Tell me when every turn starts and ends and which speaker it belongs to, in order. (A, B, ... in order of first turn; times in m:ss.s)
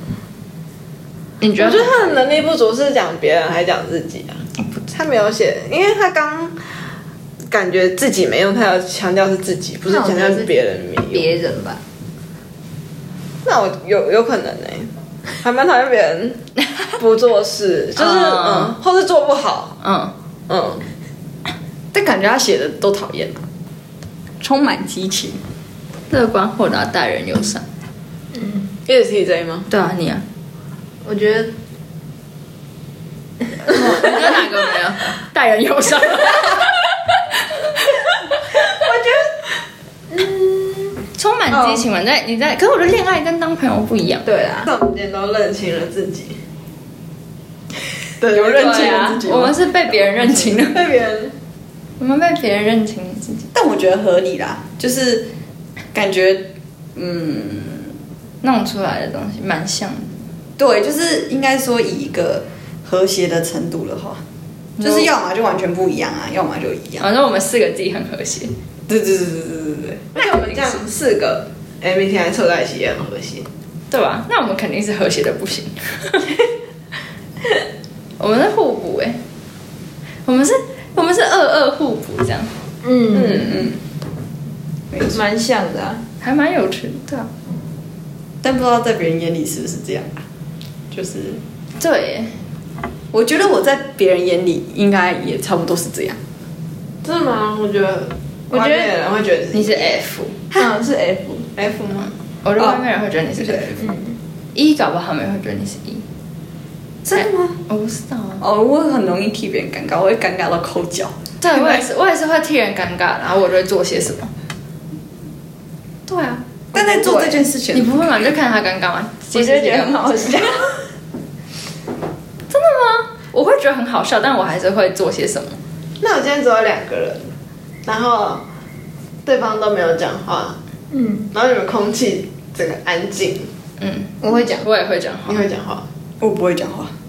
0:01.4-0:02.2 A
0:01.6-0:06.6 B
0:07.5-0:11.3 B
0:09.9-0:10.5 C
0:11.1-0:11.8 C
0:13.4-0:16.4 B
0:17.0-0:19.8 B
0:18.0-0:18.8 A
0:19.8-0:20.1 A
0:20.5-0:20.8 B
0:21.9-0:23.4 D
0:24.4-0:25.4 D
0:26.1-0:27.6 A
0:28.3-0:28.6 C
0:28.9-0:29.7 B
0:29.7-0:30.2 A
0:31.0-0:31.5 C
0:33.6-0:38.7 A
0:38.8-0:39.1 C
0:40.1-0:41.0 C
0:41.2-0:44.3 A
0:44.2-0:44.7 C
0:44.6-0:46.4 B
0:48.2-0:50.5 D
0:48.2-0:48.9 B
0:48.4-0:50.8 A
0:50.6-0:51.3 B
0:52.0-0:53.5 A
0:53.5-0:55.3 D
0:55.9-0:57.9 D
0:58.4-1:00.1 A
1:00.6-1:04.2 D
1:04.8-1:07.1 D
1:07.0-1:08.5 A
1:08.9-1:13.5 B
1:13.9-1:16.3 A
1:18.2-1:19.2 A
1:20.2-1:22.5 A
1:22.8-1:23.6 C
1:24.9-1:25.2 D
1:25.0-1:26.0 C
1:26.2-1:27.3 A
1:28.4-1:30.2 D
1:30.9-1:31.4 D
1:31.8-1:32.3 A
1:33.1-1:36.2 D
1:37.0-1:40.0 B
1:38.5-1:38.9 C
1:39.5-1:40.4 A
1:40.5-1:41.5 D
1:41.6-1:42.8 B
1:42.4-1:43.8 A
1:43.4-1:43.7 B
1:43.8-1:44.2 C
1:44.6-1:46.0 A
1:47.0-1:47.6 D
1:47.2-1:48.4 A
1:48.4-1:51.8 D
1:51.4-1:54.3 A
1:56.1-1:56.4 A
1:56.7-1:58.0 D
1:56.8-1:57.4 C
1:57.7-2:00.6 A
1:59.6-2:00.5 D
2:02.5-2:05.6 A
2:06.0-2:07.3 B
2:07.9-2:08.4 B
2:09.2-2:10.6 B
2:10.9-2:11.3 C
2:11.3-2:13.5 B
2:13.8-2:15.5 A
2:14.2-2:14.6 C
2:15.3-2:15.8 B
2:16.2-2:16.9 D